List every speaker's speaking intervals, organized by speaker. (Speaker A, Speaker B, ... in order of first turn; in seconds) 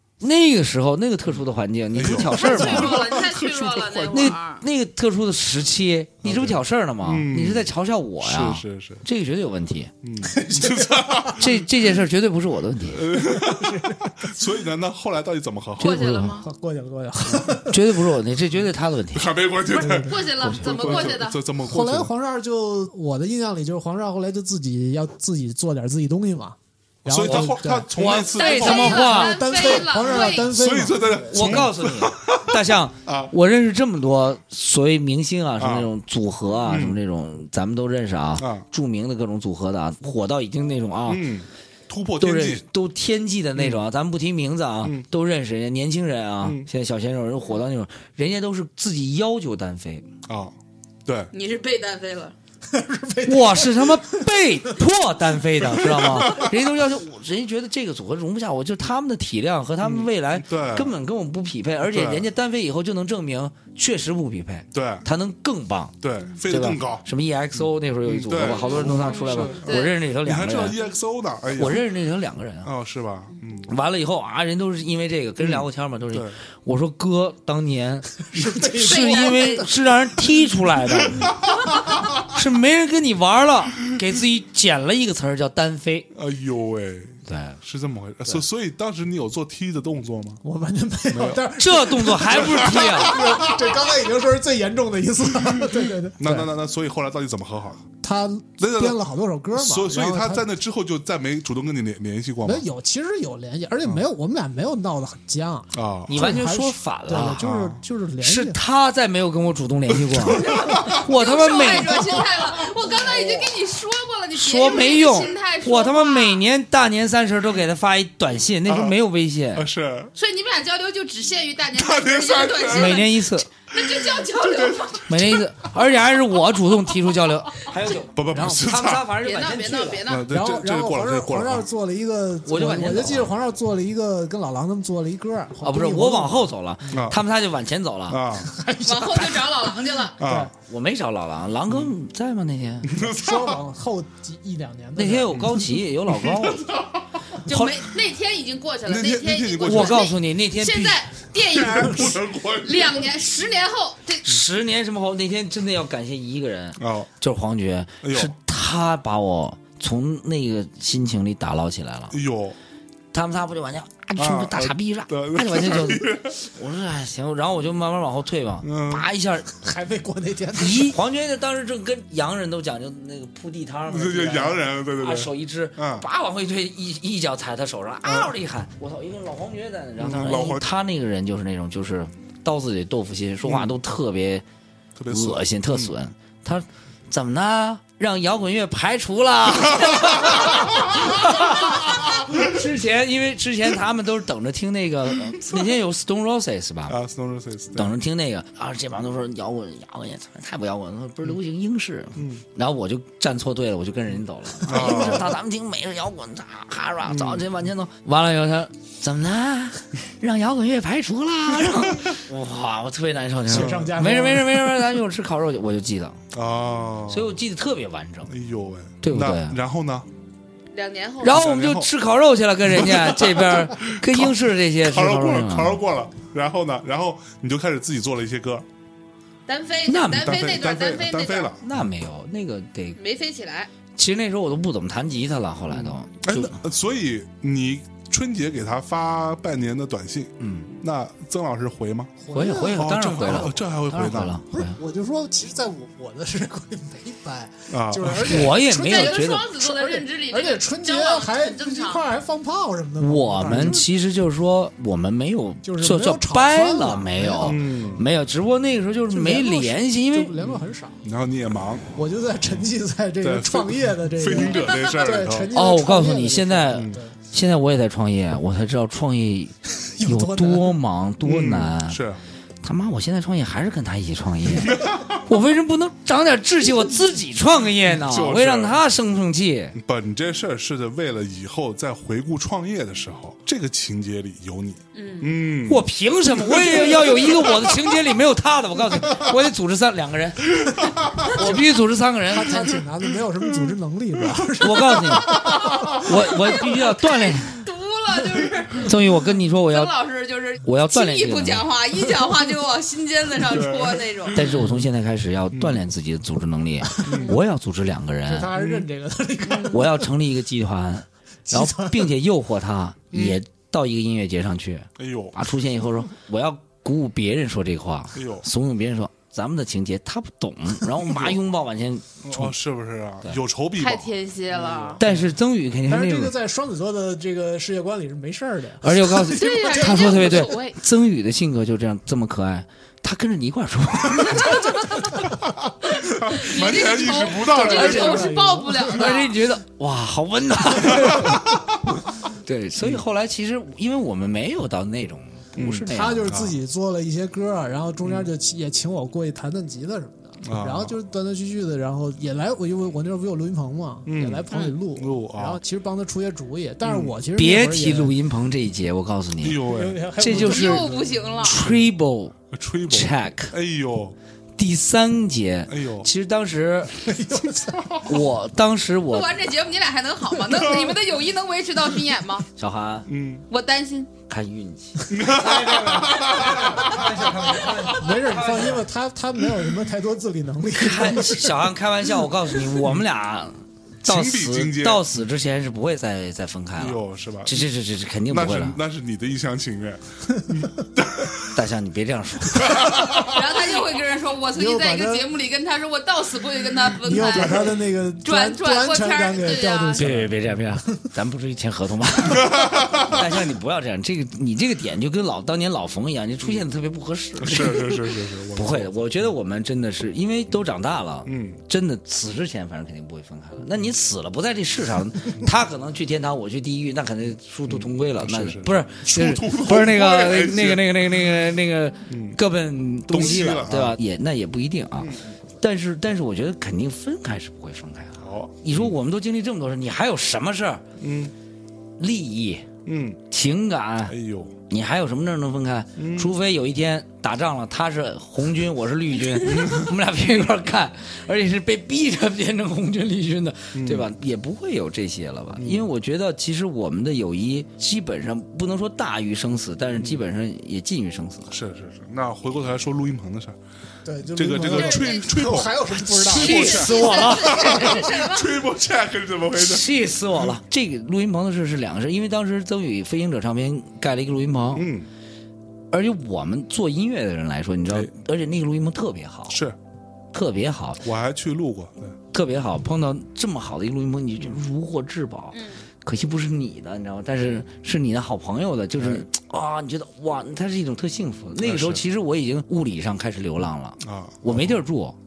Speaker A: 0.2-3.0, 4.1-9.9, 11.4-13.1, 15.8-16.4, 17.6-19.4, 20.4-21.0, 27.3-29.5, 31.3-41.2, 42.2-50.1, 53.2-70.8, 71.5-72.7, 73.7-81.3, 82.3-86.1, 87.2-87.6, 91.6-93.2, 106.1-107.4, 108.2-112.2, 113.0-113.5, 114.3-119.7, 122.7-123.5, 125.1-130.0, 132.4-133.3, 135.6-138.2, 140.7-142.9, 144.9-146.7, 149.6-151.0, 154.2-162.2, 163.1-169.5, 170.5-184.4, 185.1-197.0, 197.7-216.2, 217.1-218.3, 219.0-219.6, 221.2-225.8, 229.9-230.4, 231.6-233.0, 233.9-236.6, 240.4-240.7, 242.3-244.8, 248.2-249.5, 253.0-260.3, 265.5-272.0, 272.6-279.7, 285.7-290.5, 291.2-292.7, 294.6-295.4, 296.0-297.6, 298.8-299.9, 300.6-301.6, 304.3-308.5, 309.7-322.5, 325.0-326.3, 328.8-334.6, 337.6-338.3, 338.9-341.4, 342.4-346.3, 357.3-359.6, 360.2-360.9, 361.4-362.3, 362.9-363.5, 364.6-366.9, 368.0-369.3, 372.6-373.1, 374.3-378.9, 380.7-388.8, 391.5-392.8, 400.0-430.8, 432.0-432.7, 433.3-434.1, 434.7-451.5, 456.2-458.1, 459.5-464.9, 465.9-469.6, 470.3-471.0, 472.3-485.2
Speaker B: 1.3-4.3, 6.2-9.0, 10.0-11.8, 12.9-16.1, 19.1-22.1, 27.1-29.1, 29.9-33.3, 35.6-35.9, 36.6-37.0, 38.4-38.6, 41.1-42.6, 43.5-43.8, 46.4-46.7, 50.2-51.3, 55.8-56.5, 59.8-60.9, 61.9-62.2, 64.7-65.0, 66.0-67.1, 67.6-71.9, 72.6-73.7, 75.4-76.4, 81.0-82.0, 86.1-90.4, 91.1-91.4, 92.2-93.9, 96.2-97.8, 98.6-99.0, 99.5-102.7, 105.7-106.1, 107.4-107.8, 109.9-111.0, 118.7-119.0, 119.5-120.1, 121.7-123.1, 123.8-125.7, 127.9-129.1, 130.0-131.7, 136.9-137.2, 138.1-138.5, 140.2-140.5, 141.7-141.9, 142.8-143.6, 145.3-147.2, 148.8-150.1, 151.4-153.1, 156.8-157.1, 158.0-158.3, 162.1-162.6, 164.2-166.4, 168.6-169.1, 173.9-176.1, 178.0-178.3, 180.0-180.7, 183.4-183.7, 184.9-185.9, 189.8-191.1, 196.9-197.9, 202.2-202.4, 204.6-205.3, 207.1-207.5, 211.7-212.2, 213.5-213.9, 216.3-217.4, 218.3-220.1, 221.3-221.9, 222.7-228.7, 230.1-231.8, 235.7-242.1, 242.7-244.4, 247.7-248.5, 253.4-253.8, 257.4-258.0, 260.4-261.9, 263.2-265.5, 266.7-267.0, 271.2-272.2, 274.5-275.2, 277.9-278.8, 279.7-287.9, 290.6-291.4, 293.4-293.7, 295.3-296.1, 303.4-304.7, 305.5-305.9, 307.0-307.4, 308.5-308.9, 313.1-313.4, 315.0-315.4, 318.1-318.4, 321.0-321.4, 322.2-325.2, 336.0-338.2, 340.8-341.4, 342.8-343.0, 345.5-346.6, 348.0-348.3, 350.4-350.9, 354.1-355.6, 356.8-357.2, 359.4-360.0, 361.6-361.9, 362.5-364.2, 365.7-366.1, 370.5-370.9, 373.1-373.4, 375.1-377.8, 384.0-385.1, 386.8-387.7, 388.3-391.6, 392.5-393.6, 397.3-397.7, 402.2-403.3, 407.4-408.9, 411.2-411.6, 417.7-421.3, 422.1-422.4, 423.1-424.0, 425.0-425.3, 428.2-428.9, 431.0-431.3, 432.9-433.2, 434.1-434.6, 436.0-436.3, 439.4-439.9, 443.7-444.1, 445.6-445.9, 451.5-453.6, 454.3-460.6, 464.7-465.1, 469.5-469.8, 471.0-472.2, 479.0-479.3, 481.6-482.0, 484.0-484.8
Speaker C: 2.3-4.6, 15.8-16.5, 19.7-21.4, 28.0-30.5, 51.3-52.3, 68.4-70.0, 78.8-79.7, 110.3-116.4, 120.2-125.1, 129.2-130.3, 138.8-140.2, 147.4-154.3, 220.7-221.4, 229.5-231.5, 233.0-233.7, 248.7-252.0, 264.3-265.4, 284.9-285.3, 296.8-299.0, 299.7-304.4, 309.4-309.7, 323.8-325.0, 329.3-330.8, 334.3-334.9, 335.9-339.4, 354.5-354.8, 360.2-361.6, 369.1-372.4, 373.5-374.1, 392.9-400.1, 454.7-455.4, 456.4-458.6, 475.5-475.8
Speaker D: 10.2-11.5, 13.2-14.4, 16.4-18.0, 19.8-20.2, 21.6-27.9, 28.5-31.7, 52.7-54.3, 78.3-79.7, 90.4-96.5, 98.0-100.5, 102.4-108.6, 130.3-137.1, 138.4-140.5, 142.9-145.4, 169.5-171.0, 204.7-205.1, 213.5-214.8, 242.2-243.6, 244.5-253.9, 255.6-258.0, 259.1-261.0, 261.9-267.2, 270.0-270.8, 291.3-291.6, 292.3-296.1, 306.9-307.2, 308.2-310.1, 311.5-312.1, 325.9-330.5, 337.4-339.1, 345.9-358.1, 359.6-361.4, 367.0-368.0, 377.9-381.6, 394.5-395.2, 397.0-400.4, 454.0-456.9